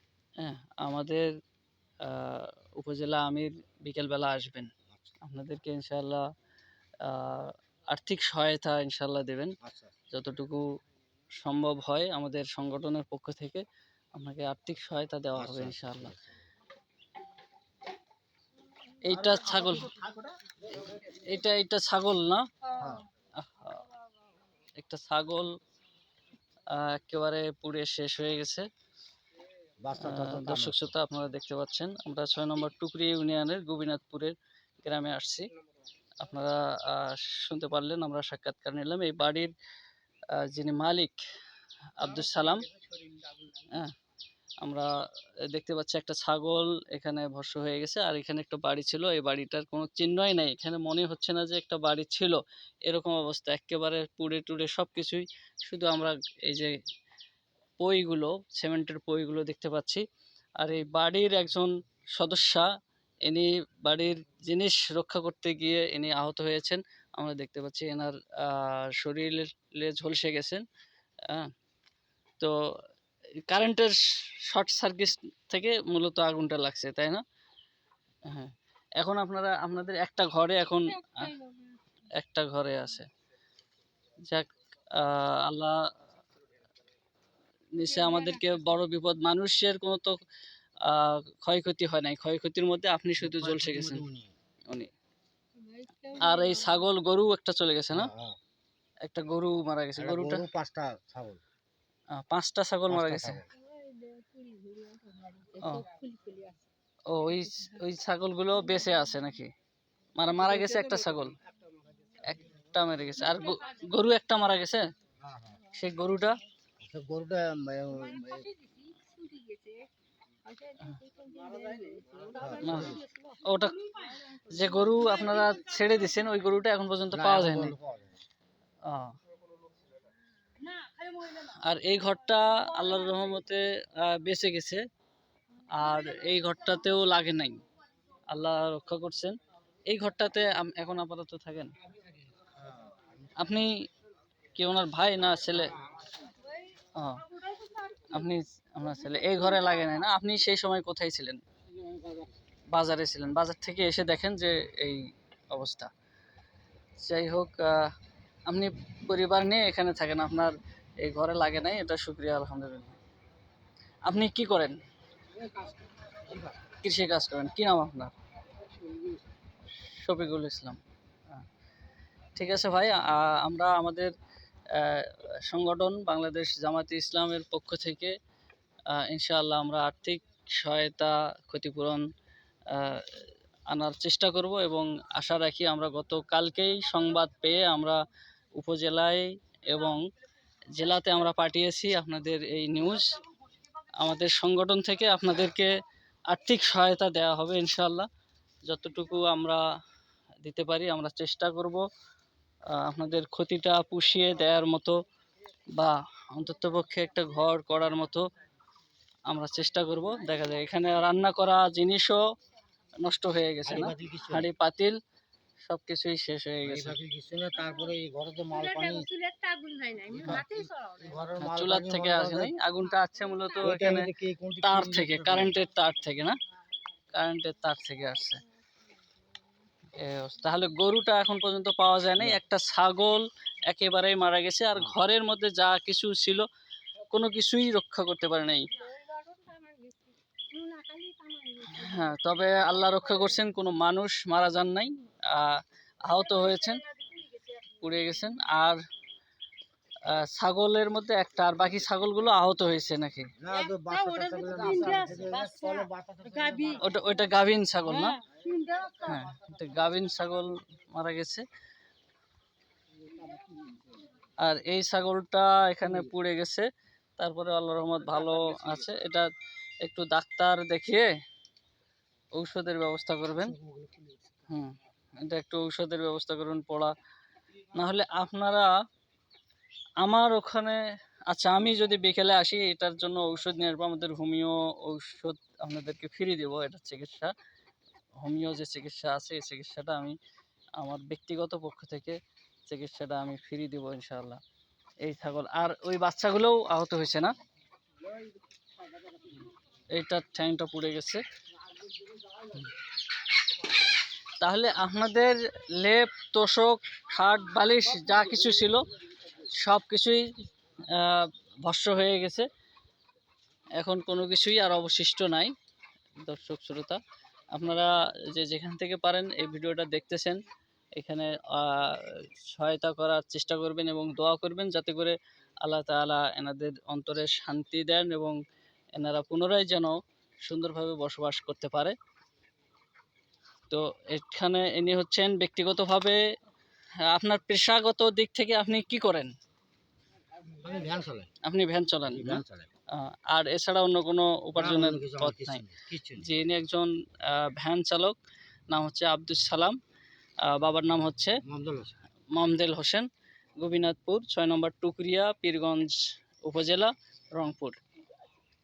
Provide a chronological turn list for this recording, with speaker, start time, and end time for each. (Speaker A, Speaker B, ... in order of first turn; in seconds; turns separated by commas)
Speaker A: 0.4-1.3, Speaker A: 2.0-4.7, Speaker B: 4.9-5.2, Speaker A: 5.2-6.2, Speaker A: 7.0-9.6, Speaker B: 9.6-10.0, Speaker A: 10.1-10.6, Speaker A: 11.4-16.1, Speaker B: 15.3-16.4, Speaker A: 19.0-19.9, Speaker B: 19.1-20.5, Speaker A: 21.0-22.4, Speaker C: 22.6-23.0, Speaker B: 22.8-23.1, Speaker A: 23.4-23.9, Speaker A: 24.8-25.5, Speaker A: 26.7-28.7, Speaker B: 29.8-30.9, Speaker A: 30.0-35.5, Speaker A: 36.2-39.5, Speaker A: 40.3-41.2, Speaker A: 42.0-42.6, Speaker A: 44.6-44.9, Speaker A: 45.5-56.7, Speaker A: 57.8-60.0, Speaker A: 60.6-62.7, Speaker A: 63.2-70.6, Speaker A: 73.5-77.2, Speaker A: 78.2-81.3, Speaker C: 80.9-81.8, Speaker A: 82.1-83.1, Speaker A: 84.2-85.8, Speaker A: 87.7-90.2, Speaker C: 87.8-88.8, Speaker A: 90.8-94.0, Speaker B: 93.2-94.3, Speaker C: 95.5-96.8, Speaker A: 96.2-98.1, Speaker B: 97.9-98.4, Speaker A: 99.0-100.4, Speaker B: 100.0-101.4, Speaker A: 102.1-103.4, Speaker B: 102.9-103.5, Speaker C: 103.5-106.7, Speaker A: 107.1-109.5, Speaker C: 107.3-107.8, Speaker A: 110.2-111.3, Speaker A: 112.2-114.8, Speaker C: 113.1-113.9, Speaker B: 115.2-115.6, Speaker A: 115.7-116.4, Speaker B: 116.8-118.5, Speaker C: 117.9-119.9, Speaker C: 120.4-126.3, Speaker B: 122.3-123.0, Speaker A: 122.6-123.8, Speaker A: 124.5-127.7, Speaker B: 127.1-128.2, Speaker A: 128.8-129.2, Speaker C: 130.6-131.6, Speaker A: 131.3-134.8, Speaker C: 132.5-133.3, Speaker A: 135.7-137.6, Speaker C: 135.9-136.2, Speaker A: 138.3-139.3, Speaker A: 139.9-141.7, Speaker B: 142.4-143.6, Speaker A: 143.3-143.7, Speaker A: 144.5-145.8, Speaker B: 145.5-146.2, Speaker C: 146.4-146.8, Speaker A: 146.9-147.2, Speaker C: 147.3-148.2, Speaker A: 148.1-151.4, Speaker C: 149.0-149.8, Speaker A: 152.7-155.9, Speaker A: 157.0-157.9, Speaker A: 158.4-163.0, Speaker A: 164.0-164.8, Speaker B: 165.4-166.6, Speaker A: 166.8-168.1, Speaker A: 169.8-170.8, Speaker A: 172.3-174.1, Speaker A: 174.7-178.1, Speaker A: 178.9-182.1, Speaker A: 182.7-188.0, Speaker A: 188.6-190.0, Speaker A: 190.7-193.1, Speaker A: 194.0-195.7, Speaker A: 196.3-198.1, Speaker A: 198.7-199.6, Speaker A: 200.4-201.8, Speaker A: 202.7-204.9, Speaker A: 205.8-208.3, Speaker A: 209.3-212.2, Speaker A: 213.0-215.0, Speaker B: 213.6-214.5, Speaker A: 215.6-216.9, Speaker B: 216.6-219.1, Speaker C: 217.6-217.9, Speaker C: 218.5-221.3, Speaker B: 220.1-222.5, Speaker A: 221.4-224.1, Speaker C: 223.4-223.8, Speaker B: 223.6-225.6, Speaker A: 224.6-226.4, Speaker A: 227.1-228.4, Speaker A: 229.9-236.4, Speaker B: 234.7-235.0, Speaker A: 237.1-238.7, Speaker C: 238.7-243.4, Speaker A: 241.7-246.8, Speaker C: 246.1-247.8, Speaker A: 247.8-248.8, Speaker A: 250.1-253.3, Speaker B: 253.4-257.1, Speaker C: 253.5-256.9, Speaker A: 256.8-258.2, Speaker C: 257.9-259.2, Speaker A: 259.0-261.4, Speaker A: 264.4-269.3, Speaker B: 265.8-266.1, Speaker B: 268.5-268.8, Speaker A: 269.8-271.1, Speaker A: 272.3-273.6, Speaker B: 273.4-274.3, Speaker A: 274.5-276.9, Speaker A: 277.7-278.7, Speaker A: 280.0-280.8, Speaker A: 281.3-287.3, Speaker A: 288.2-290.2, Speaker A: 290.8-294.4, Speaker A: 295.0-297.3, Speaker A: 299.9-301.2, Speaker A: 304.4-312.5, Speaker A: 313.8-315.5, Speaker A: 316.2-317.0, Speaker A: 317.5-320.4, Speaker A: 320.9-328.4, Speaker A: 328.9-331.9, Speaker A: 333.7-336.2, Speaker A: 337.0-339.3, Speaker B: 340.5-341.3, Speaker A: 341.4-342.4, Speaker B: 342.1-342.7, Speaker A: 342.9-345.6, Speaker B: 344.5-346.2, Speaker A: 346.2-348.2, Speaker A: 348.7-349.8, Speaker A: 350.4-351.4, Speaker B: 351.4-352.0, Speaker A: 352.3-353.1, Speaker A: 353.6-357.8